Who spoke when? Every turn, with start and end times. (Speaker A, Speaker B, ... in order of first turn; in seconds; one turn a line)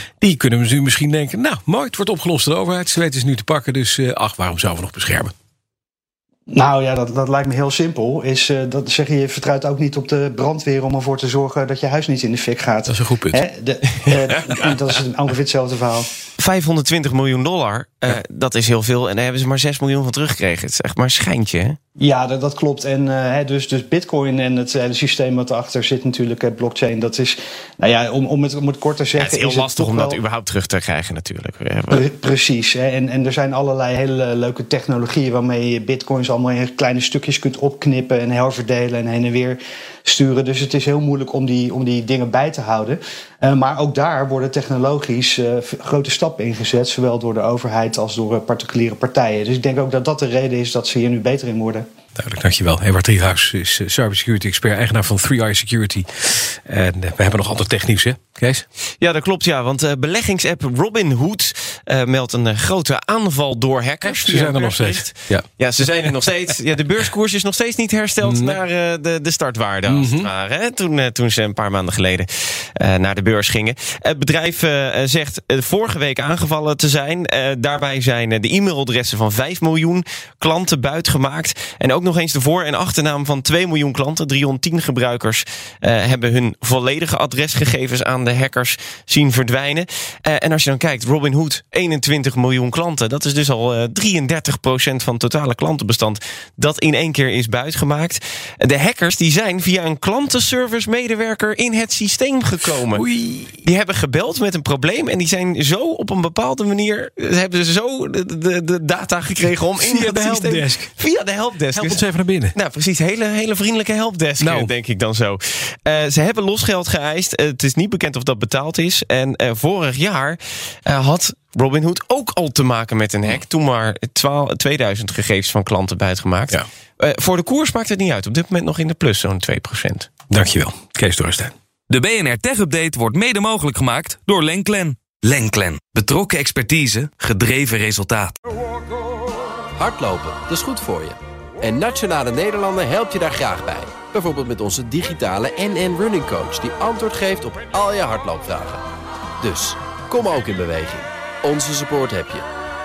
Speaker A: 0.2-5.3
Speaker B: 6.5-16.1
Speaker A: 12.9-13.4
Speaker C: 16.4-21.8
Speaker B: 22.0-30.2
Speaker C: 29.2-32.0
Speaker B: 31.9-51.8
Speaker A: 52.1-58.6
Speaker C: 59.0-103.0
Speaker A: 64.0-65.4
Speaker A: 68.2-68.6
Speaker A: 69.9-70.3
Speaker A: 102.9-103.6
Speaker C: 103.6-130.1
Speaker A: 109.8-110.9
Speaker A: 111.7-112.5
Speaker A: 114.4-114.7
Speaker A: 130.3-131.5
Speaker D: 131.9-138.3
Speaker E: 139.8-148.8
Speaker E: 149.4-152.5